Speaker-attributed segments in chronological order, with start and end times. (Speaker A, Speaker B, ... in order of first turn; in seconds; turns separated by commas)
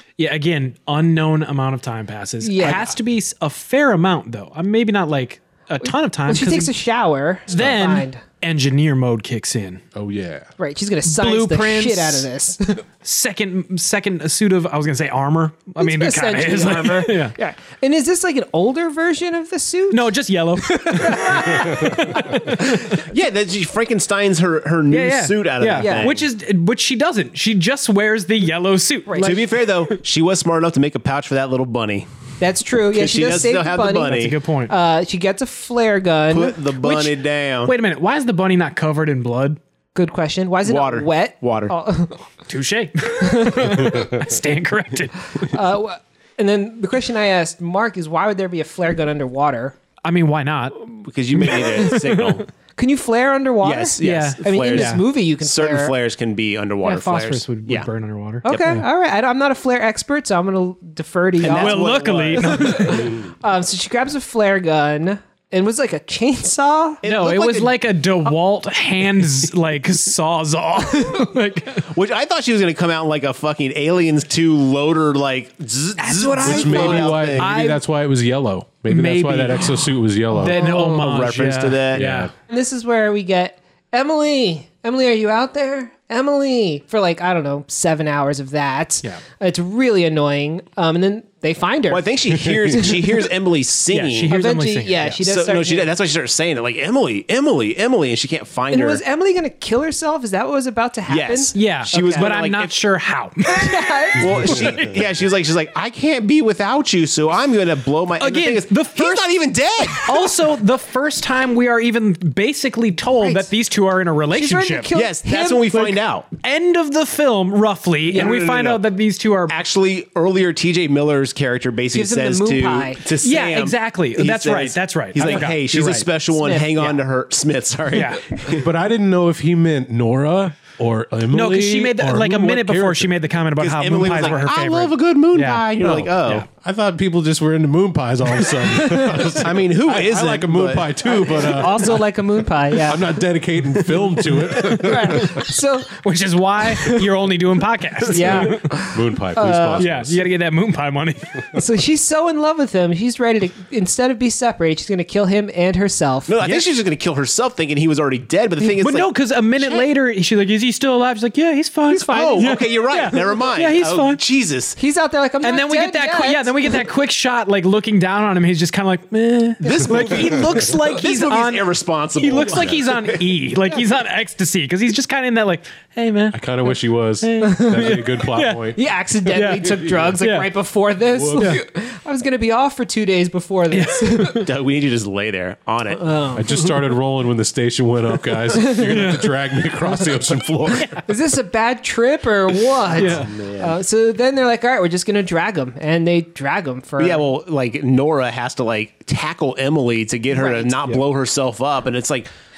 Speaker A: 0.2-6.7, Speaker B: 2.4-2.9, Speaker B: 5.8-8.2, Speaker A: 7.5-9.8, Speaker C: 9.9-10.5, Speaker B: 10.6-12.8, Speaker A: 11.0-12.3, Speaker A: 13.0-17.4, Speaker B: 15.8-20.1, Speaker A: 19.9-23.0, Speaker B: 20.7-22.6, Speaker D: 23.0-26.2, Speaker A: 24.9-29.9, Speaker B: 25.8-26.1, Speaker B: 29.1-29.4, Speaker D: 29.2-32.1, Speaker B: 32.4-34.2, Speaker D: 32.9-34.4, Speaker A: 34.1-34.7, Speaker B: 34.7-36.6, Speaker D: 36.3-37.7, Speaker A: 36.8-39.6, Speaker B: 40.0-42.2, Speaker D: 40.6-41.7, Speaker A: 42.5-45.5, Speaker B: 43.2-43.8, Speaker B: 45.5-49.8, Speaker A: 50.0-50.8, Speaker D: 50.8-52.5, Speaker A: 51.4-52.4, Speaker B: 52.8-55.9, Speaker D: 53.6-57.9, Speaker A: 54.0-55.0, Speaker A: 56.8-58.9, Speaker B: 58.4-67.0, Speaker D: 61.4-63.0, Speaker A: 61.4-63.1, Speaker D: 67.0-67.7, Speaker A: 67.0-71.9, Speaker D: 71.9-77.5, Speaker A: 76.0-77.8, Speaker B: 76.3-77.0, Speaker C: 76.4-80.6, Speaker A: 78.9-82.3, Speaker B: 80.6-81.0, Speaker D: 80.8-82.1, Speaker C: 81.9-82.3, Speaker B: 82.5-93.1, Speaker D: 91.9-94.3, Speaker A: 93.9-95.2, Speaker B: 94.3-95.9, Speaker D: 95.2-99.0, Speaker B: 98.7-102.3, Speaker D: 101.1-102.8, Speaker A: 101.5-103.7, Speaker B: 103.5-104.7, Speaker D: 104.2-110.1, Speaker A: 104.5-104.9, Speaker A: 108.2-109.3, Speaker A: 110.0-114.9, Speaker B: 113.2-113.5, Speaker B: 114.3-116.0, Speaker D: 114.9-116.3, Speaker A: 116.4-119.6, Speaker D: 118.1-118.8, Speaker D: 119.5-128.7, Speaker B: 121.9-123.1, Speaker A: 123.2-126.1, Speaker B: 126.3-126.9, Speaker A: 127.9-128.2, Speaker C: 128.5-133.2, Speaker A: 131.3-135.7, Speaker D: 133.6-136.4, Speaker C: 135.8-142.1, Speaker B: 138.8-139.4, Speaker D: 139.4-141.1, Speaker B: 141.1-143.1, Speaker C: 142.9-145.5, Speaker D: 143.9-144.8, Speaker B: 144.8-146.0, Speaker A: 146.0-148.7, Speaker B: 146.8-147.1, Speaker B: 148.1-149.9, Speaker C: 148.9-150.2, Speaker A: 149.8-151.4, Speaker B: 151.5-156.3, Speaker D: 156.3-159.1, Speaker A: 156.4-156.7, Speaker A: 158.6-164.2, Speaker B: 159.6-159.9, Speaker B: 161.9-162.6, Speaker D: 162.1-164.8, Speaker B: 164.8-166.8, Speaker A: 165.4-178.6, Speaker D: 169.6-173.2, Speaker C: 176.3-178.9, Speaker B: 177.4-178.0, Speaker B: 178.8-184.5, Speaker A: 179.3-180.5, Speaker C: 179.5-180.2, Speaker C: 181.1-181.6, Speaker A: 183.7-184.5, Speaker D: 184.4-186.1, Speaker B: 186.0-186.8, Speaker C: 186.3-191.0, Speaker B: 188.6-188.9, Speaker A: 188.8-189.3, Speaker B: 191.1-197.3, Speaker A: 193.0-193.3, Speaker D: 193.0-193.7, Speaker D: 197.0-202.3, Speaker B: 200.3-200.8